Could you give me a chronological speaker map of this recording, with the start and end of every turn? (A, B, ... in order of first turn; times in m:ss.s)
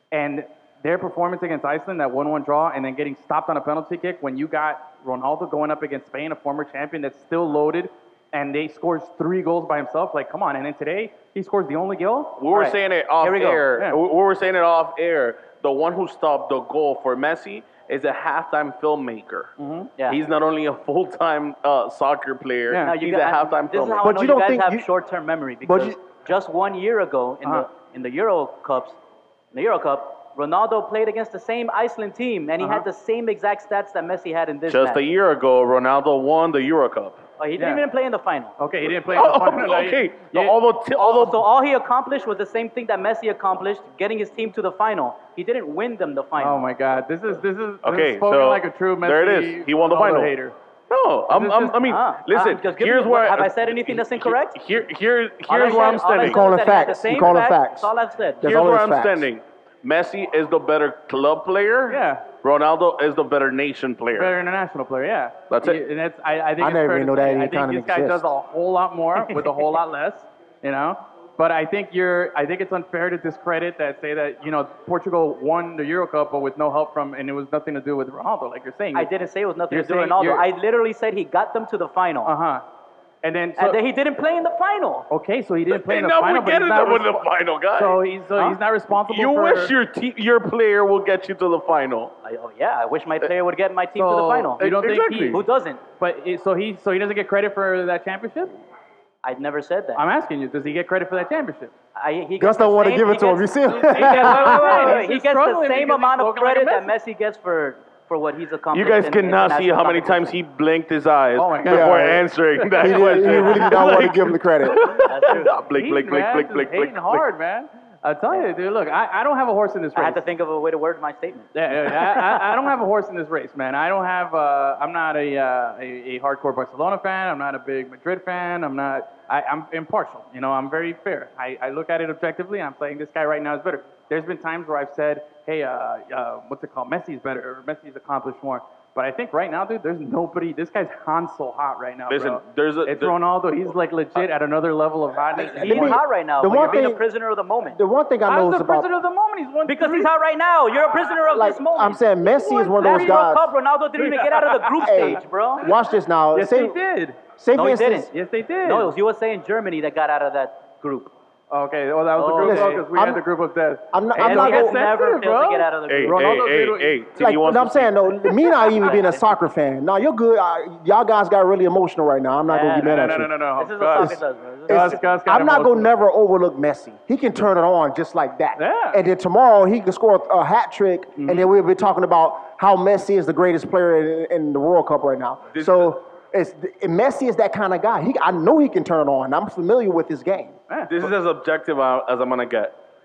0:00.1-0:12.8 A
0:12.4-0:19.5 B
0:13.2-0:13.7 C
0:19.6-0:19.9 A
0:20.1-0:24.0 B
0:22.7-0:23.0 A
0:22.8-0:29.0 C
0:24.0-0:24.9 D
0:25.6-0:26.0 D
0:29.5-0:35.0 C
0:34.7-0:37.2 B
0:37.4-0:38.5 C
0:37.6-0:37.8 A
0:38.6-0:40.6 A
0:39.0-0:41.4 B
0:41.0-0:46.6 C
0:46.4-0:50.6 A
0:47.8-0:50.3 B
0:50.9-0:56.4 B
0:51.3-0:51.8 A
0:51.8-0:54.6 C
0:55.5-0:58.6 C
0:56.1-0:59.3 D
0:58.4-1:04.3 B
1:01.9-1:02.3 A
1:04.1-1:19.1 A
1:05.5-1:05.8 B
1:06.6-1:08.3 D
1:09.2-1:09.5 C
1:19.0-1:22.3 C
1:19.7-1:20.4 A
1:22.2-1:22.6 A
1:23.2-1:23.8 A
1:23.6-1:25.1 C
1:25.1-1:29.8 A
1:25.7-1:28.0 B
1:29.0-1:32.1 B
1:32.2-1:34.6 C
1:34.0-1:35.4 A
1:34.6-1:35.4 B
1:35.3-1:35.8 C
1:36.0-1:38.6 A
1:39.2-1:40.0 C
1:40.0-1:41.7 A
1:42.0-1:50.4 C
1:42.4-1:45.0 D
1:43.8-1:46.9 A
1:48.7-1:57.2 B
1:51.4-1:53.8 A
1:51.6-1:54.8 D
1:55.0-1:55.6 C
1:55.8-2:00.2 A
2:00.0-2:02.5 C
2:01.5-2:26.0 A
2:22.1-2:23.2 B
2:25.4-2:27.8 C
2:25.5-2:27.0 D
2:27.7-2:28.9 D
2:28.3-2:30.1 A
2:29.7-2:35.7 C
2:31.3-2:33.5 D
2:32.7-2:33.2 A
2:34.0-2:35.2 A
2:34.8-2:36.8 D
2:36.3-2:37.2 A
2:37.4-2:38.1 D
2:37.5-2:38.1 C
2:38.1-2:38.9 A
2:38.6-2:41.1 C
2:41.5-2:47.0 A
2:42.2-2:42.8 C
2:42.4-2:43.2 D
2:43.9-2:44.8 D
2:44.2-2:46.5 C
2:45.9-2:48.1 B
2:47.2-2:53.4 D
2:48.5-2:49.3 C
2:52.5-2:53.0 C
2:52.8-2:54.2 A
2:53.6-2:55.2 C
2:53.9-3:10.6 D
2:54.7-2:55.9 A
2:58.6-2:59.0 A
3:01.2-3:01.5 A
3:05.5-3:05.9 B
3:10.7-3:11.1 A
3:10.9-3:12.8 B